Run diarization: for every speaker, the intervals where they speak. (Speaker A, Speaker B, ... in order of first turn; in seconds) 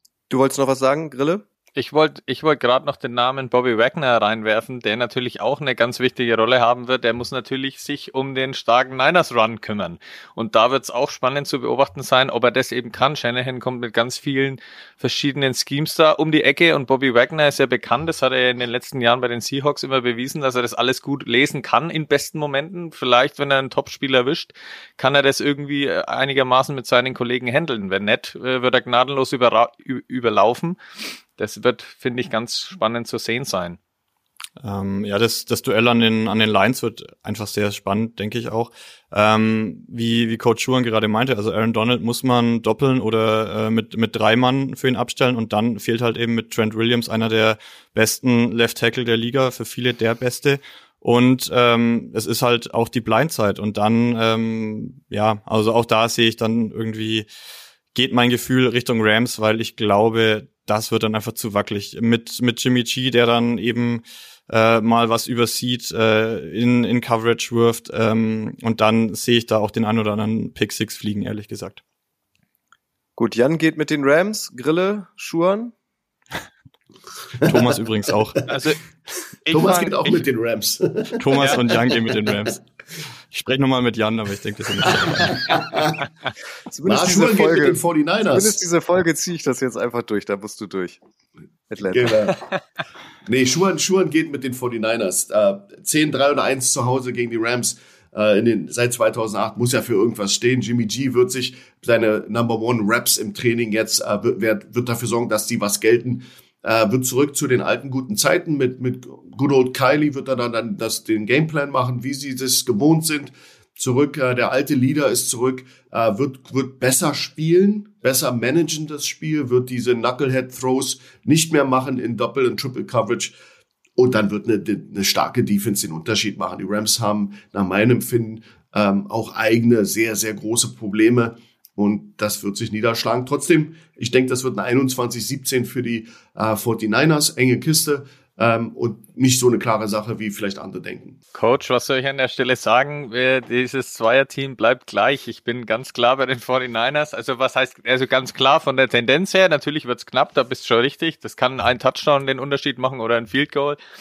Speaker A: 0.3-1.4, 73.2-75.7, 86.7-87.8, 88.3-91.0, 91.7-92.3
Speaker B: 1.8-30.8, 31.4-33.8, 78.5-78.8, 79.5-80.2, 81.4-81.6, 141.3-153.8
Speaker C: 34.6-57.3, 57.9-71.8, 77.4-78.4, 81.2-82.6, 83.3-85.6
Speaker D: 77.4-77.8, 79.5-82.0, 84.9-86.0, 86.9-88.6, 91.9-92.4, 93.3-123.3, 124.0-141.2